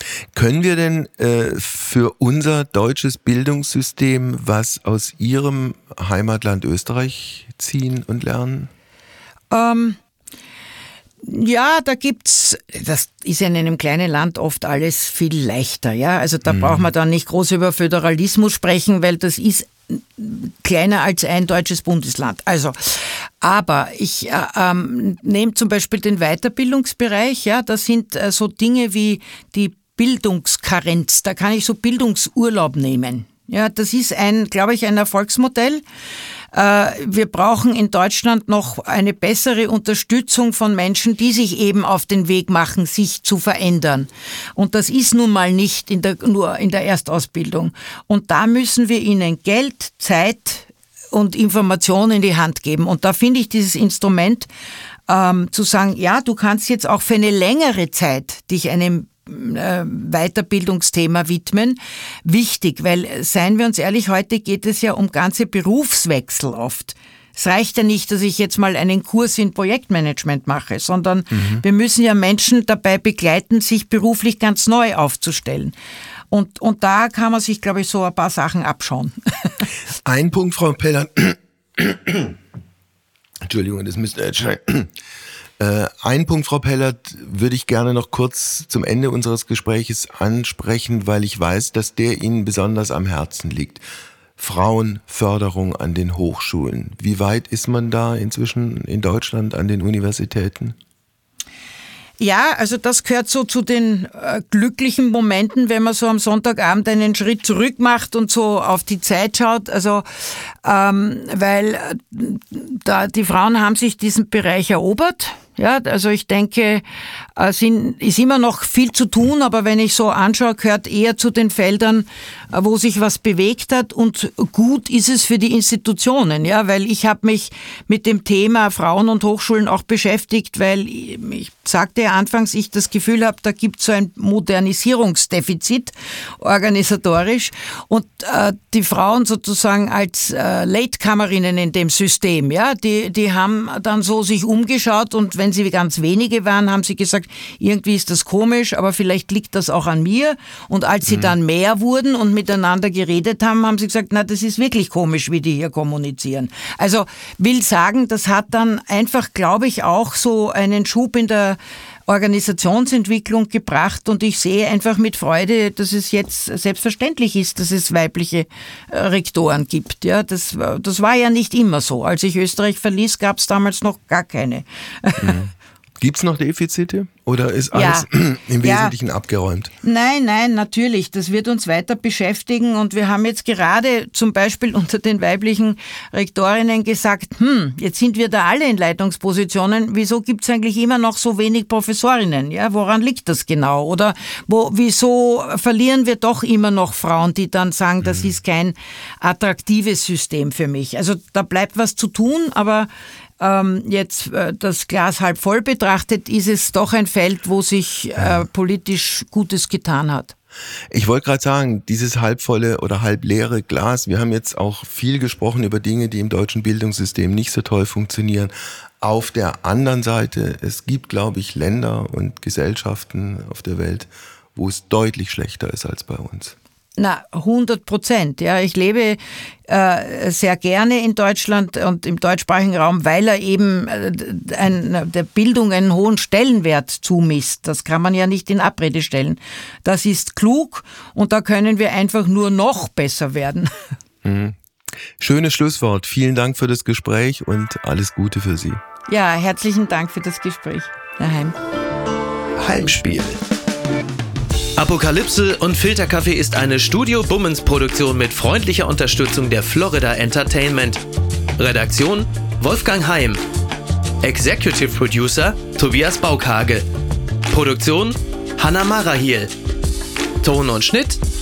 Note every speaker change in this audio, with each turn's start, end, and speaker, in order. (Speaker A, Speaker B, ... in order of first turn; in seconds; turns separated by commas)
Speaker A: 0.3-8.7, Speaker B: 9.5-10.0, Speaker B: 11.2-35.8, Speaker A: 16.5-16.8, Speaker B: 36.5-54.5, Speaker B: 55.1-75.7, Speaker A: 71.3-71.6, Speaker B: 76.3-79.7, Speaker A: 80.0-82.3, Speaker A: 83.4-84.9, Speaker A: 85.6-93.8, Speaker A: 94.4-100.8, Speaker B: 102.2-116.8, Speaker B: 117.3-175.4, Speaker A: 151.1-151.3, Speaker A: 175.2-179.7, Speaker B: 177.7-178.1, Speaker B: 178.6-178.9, Speaker B: 179.8-202.9, Speaker B: 203.4-210.3, Speaker A: 210.9-226.6, Speaker B: 227.0-243.7, Speaker A: 244.2-244.6, Speaker A: 245.2-248.8, Speaker B: 249.1-251.6, Speaker C: 252.6-253.4, Speaker C: 254.8-261.0, Speaker C: 261.6-263.4, Speaker C: 264.2-266.9, Speaker C: 267.5-269.5, Speaker C: 270.4-271.2